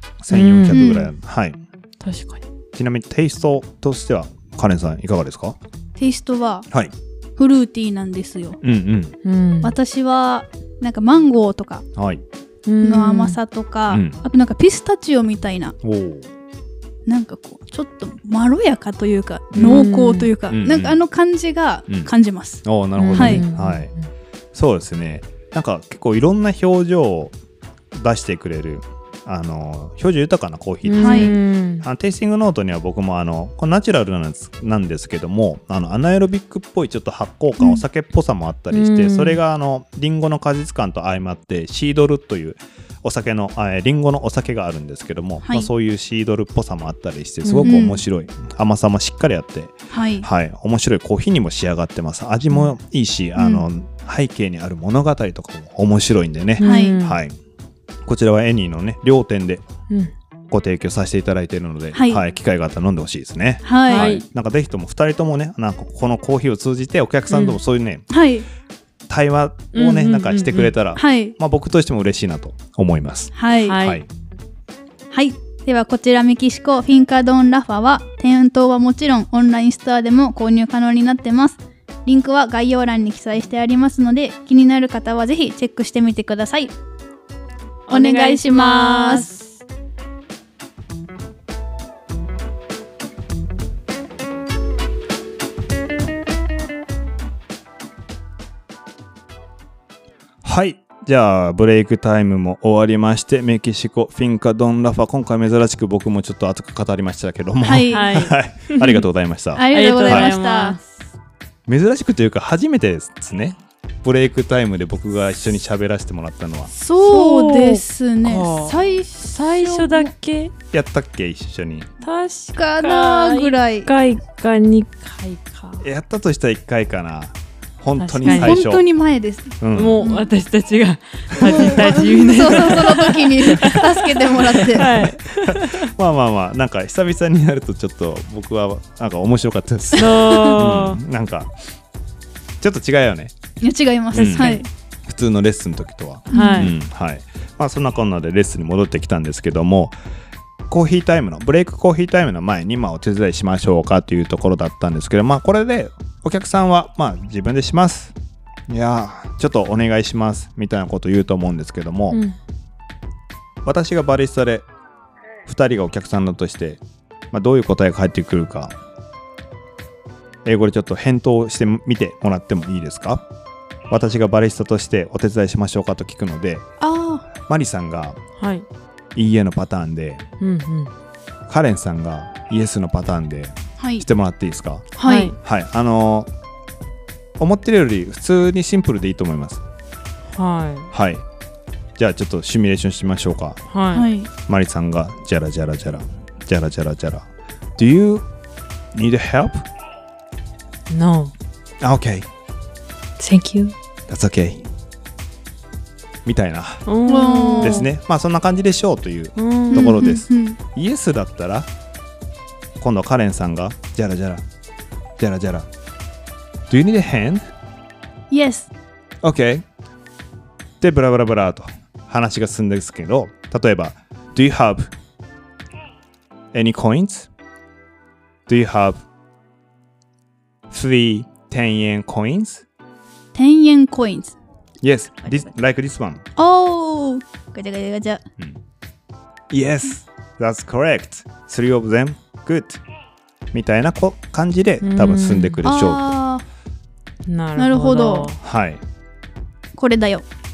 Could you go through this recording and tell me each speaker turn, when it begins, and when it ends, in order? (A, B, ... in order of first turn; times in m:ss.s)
0:00.2-0:01.6 A
0:00.3-0:01.0 B
0:00.7-0:01.1 C
0:02.0-0:02.4 B
0:02.7-0:05.6 A
0:06.0-0:06.6 C
0:07.4-0:08.6 C
0:08.6-0:09.2 A
0:09.2-0:09.7 B
0:09.6-0:11.8 C
0:12.0-0:12.2 A
0:12.6-0:13.4 B
0:12.8-0:15.8 C
0:13.9-0:14.2 A
0:15.8-0:16.3 A
0:17.0-0:23.4 C
0:19.5-0:19.8 A
0:19.6-0:20.3 B
0:20.5-0:21.0 A
0:22.6-0:23.9 A
0:23.0-0:23.9 B
0:24.5-0:27.3 A
0:27.9-0:57.4 A
0:30.8-0:31.8 B
0:31.0-0:31.3 C
0:38.7-0:39.4 B
0:45.4-0:45.7 C
0:47.4-0:47.8 B
0:47.6-0:48.0 C
0:49.9-0:50.3 C
0:53.4-0:53.6 C
0:56.6-0:57.2 B
0:56.6-0:57.0 C
0:58.0-0:59.6 A
1:00.5-1:08.0 A
1:01.9-1:02.2 C
1:03.6-1:04.2 C
1:03.9-1:04.2 B
1:07.3-1:07.6 B
1:08.1-1:08.4 C
1:09.1-1:14.0 A
1:09.7-1:10.7 B
1:11.0-1:11.4 C
1:13.3-1:13.8 C
1:13.6-1:14.0 B
1:15.1-1:26.7 C
1:27.9-1:29.5 B
1:27.9-1:29.3 C
1:40.4-1:50.3 A
1:47.6-1:48.3 C
1:47.9-1:49.0 B
1:49.5-1:50.8 C
1:49.7-1:50.9 B
1:51.7-1:56.7 A
1:56.7-2:00.1 C
1:57.0-2:00.5 B
2:00.7-2:01.9 A
2:02.0-2:05.8 B
2:02.6-2:03.9 C
2:05.8-2:08.8 A
2:08.0-2:08.6 B
2:08.2-2:10.3 C
2:09.6-2:10.0 A
2:09.7-2:15.9 B
2:11.4-2:14.9 C
2:14.8-2:21.5 A
2:20.0-2:21.0 B
2:20.1-2:20.6 C
2:22.6-2:23.3 A
2:23.6-2:24.7 C
2:24.1-2:29.9 A
2:24.3-2:24.6 B
2:26.3-2:26.7 C
2:26.3-2:26.7 B
2:30.7-2:38.1 A
2:38.7-2:42.2 A
2:42.1-2:42.4 B
2:43.6-2:44.6 A
2:45.4-2:46.8 A
2:47.3-2:48.7 A
2:50.4-2:53.2 A
2:53.9-2:56.7 A
2:56.8-2:57.3 C
2:57.4-2:58.2 A
2:58.4-2:58.6 B
2:59.2-3:00.2 A
3:00.4-3:00.9 B
3:01.5-3:06.3 A
3:03.8-3:04.0 C
3:05.0-3:05.3 C
3:05.0-3:05.3 B
3:07.4-3:09.6 A
3:10.3-3:10.9 B
3:10.9-3:11.2 A
3:12.0-3:13.6 A
3:13.7-3:14.1 B
3:13.9-3:14.3 C
3:14.5-3:18.2 A
3:18.9-3:19.6 A
3:20.9-3:21.3 B
3:21.8-3:22.3 A
3:23.2-3:23.7 B
3:24.1-3:24.6 A
3:26.2-3:26.8 A
3:26.9-3:27.9 B
3:27.0-3:27.9 C
3:27.6-3:31.7 A
3:29.4-3:29.9 B
3:29.7-3:30.6 C
3:32.8-3:34.4 A
3:35.2-3:35.7 A
3:36.7-3:37.4 A
3:38.3-3:38.7 C
3:39.2-3:39.6 A
3:40.8-3:44.9 A
3:46.5-3:47.3 A
3:48.5-3:49.0 A
3:50.7-3:52.6 A
3:53.3-3:54.4 C
3:54.8-3:56.2 A
3:56.4-3:58.2 C
3:59.5-4:02.8 A
4:03.5-4:06.1 A
4:04.8-4:05.6 B
4:05.6-4:06.4 C
4:07.3-4:08.4 B
4:07.6-4:08.3 C
4:08.4-4:08.8 A
4:09.7-4:10.2 C